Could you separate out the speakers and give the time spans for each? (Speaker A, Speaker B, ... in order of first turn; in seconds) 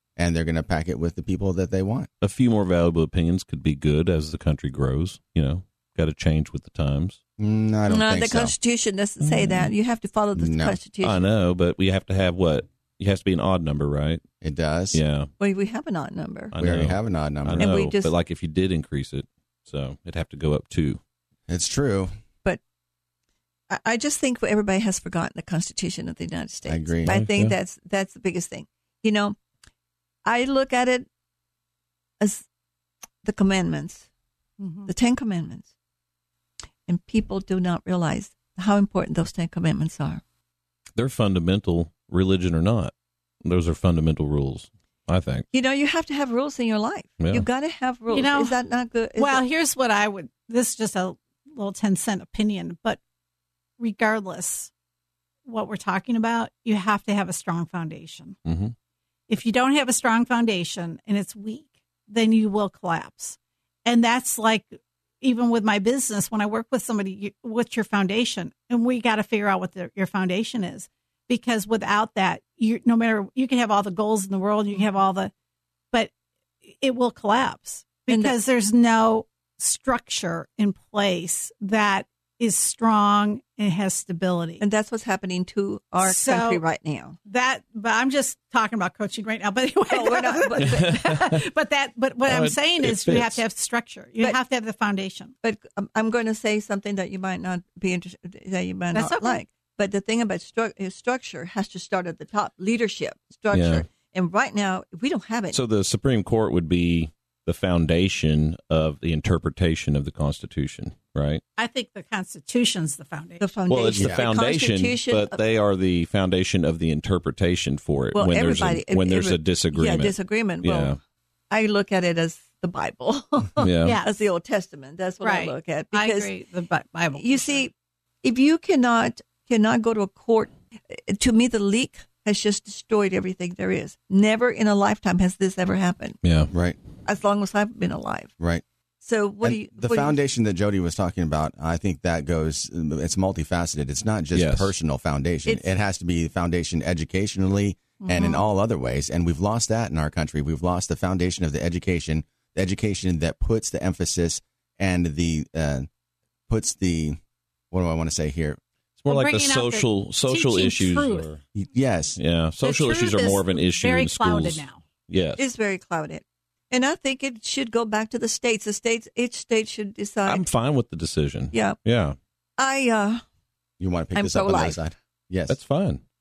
Speaker A: 0.2-2.1, 7.4-8.5, 10.3-10.8, 14.4-15.0, 16.6-17.7, 21.5-22.1, 26.7-27.1, 114.0-114.2, 136.5-136.8, 139.4-155.9, 156.5-157.2, 157.7-158.6, 161.5-162.2, 173.8-175.6
Speaker B: 2.2-7.2, 9.2-9.7, 11.0-14.2, 14.9-15.3, 16.5-21.0, 27.0-27.5, 41.0-42.9, 43.4-45.4, 47.2-47.4, 58.5-58.7, 90.6-91.4, 92.3-93.4, 103.5-103.8, 105.5-111.4, 113.7-121.0, 123.6-124.0, 136.2-136.5, 144.3-144.7, 159.0-161.4, 162.2-165.4, 170.2-172.2, 175.5-176.0
Speaker C: 7.9-11.2, 15.4-16.5, 17.6-18.1, 23.7-29.4, 30.2-31.1, 32.2-32.4, 33.2-34.0, 34.9-35.7, 36.9-40.2, 45.5-49.4, 78.1-78.3, 84.6-87.2, 89.9-91.2, 95.4-105.6, 113.4-115.4, 118.1-121.0, 121.5-126.3, 127.2-127.7, 128.2-136.2, 137.0-138.3, 139.0-140.2, 165.4-170.5, 171.5-171.8, 172.6-173.2, 174.1-174.8
Speaker D: 34.6-34.9, 48.1-48.5, 49.2-53.0, 53.8-54.7, 55.5-58.4, 59.3-75.3, 76.8-84.6, 86.0-86.6, 87.2-95.3, 98.9-99.4, 111.6-113.5, 123.8-124.1, 125.2-127.6, 148.0-148.4, 159.1-161.3, 162.6-164.8